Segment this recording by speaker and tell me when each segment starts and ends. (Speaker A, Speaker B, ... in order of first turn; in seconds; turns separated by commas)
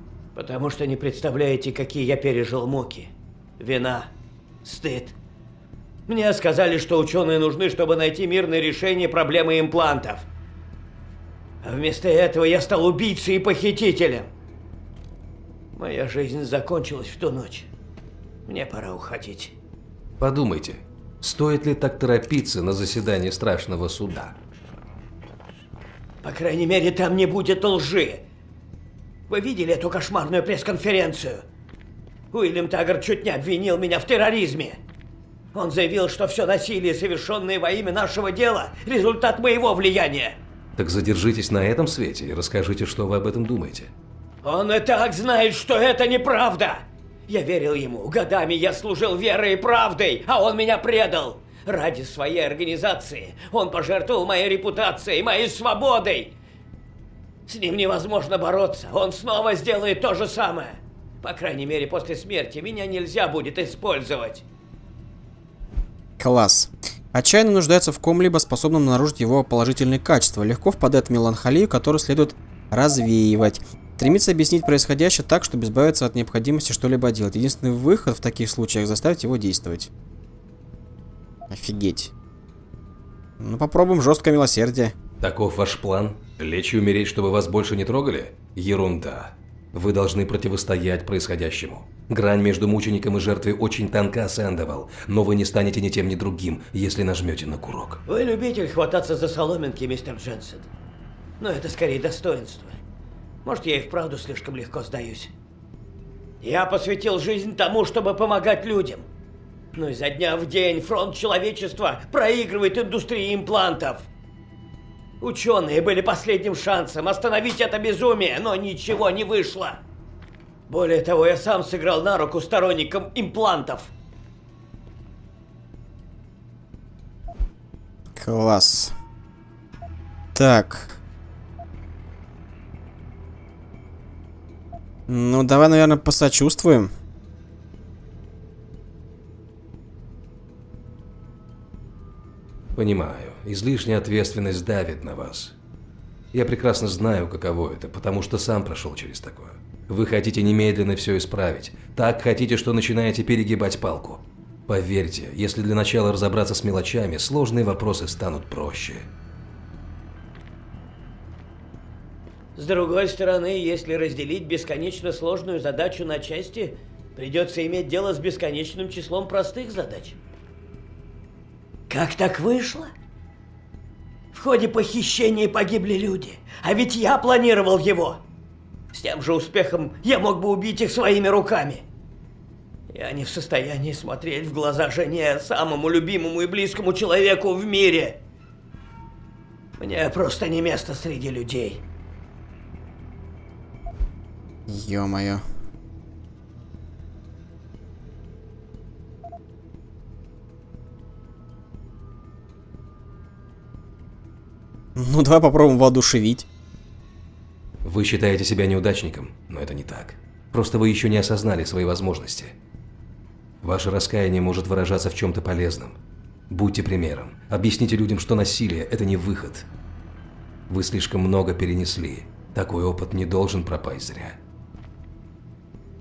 Speaker A: 0.3-4.1, Speaker A: 4.6-5.1, Speaker A: 6.1-10.2, Speaker A: 11.6-14.3, Speaker A: 15.8-17.7, Speaker A: 18.5-19.6, Speaker B: 20.2-24.3, Speaker A: 26.2-28.2, Speaker A: 29.3-31.4, Speaker A: 32.3-34.8, Speaker A: 35.5-40.4, Speaker B: 40.8-43.9, Speaker A: 44.4-56.3, Speaker A: 57.5-64.4, Speaker C: 66.2-79.9, Speaker C: 81.5-82.1, Speaker C: 83.4-84.9, Speaker B: 85.2-98.0, Speaker A: 98.1-100.7, Speaker A: 101.4-102.8, Speaker A: 103.4-105.3, Speaker A: 106.4-109.0, Speaker A: 109.8-114.1, Speaker A: 115.2-119.8, Speaker A: 120.7-123.9, Speaker C: 128.2-128.9, Speaker C: 130.3-131.0, Speaker C: 135.1-136.9, Speaker B: 142.8-145.5, Speaker B: 146.3-159.1, Speaker A: 162.6-170.2, Speaker A: 171.9-172.9, Speaker A: 174.3-178.2, Speaker A: 178.9-181.9, Speaker A: 182.9-188.2, Speaker A: 189.8-191.8, Speaker C: 194.7-195.4, Speaker C: 204.9-206.4, Speaker B: 207.8-212.5, Speaker B: 213.6-216.0, Speaker B: 216.5-219.7, Speaker B: 220.7-224.4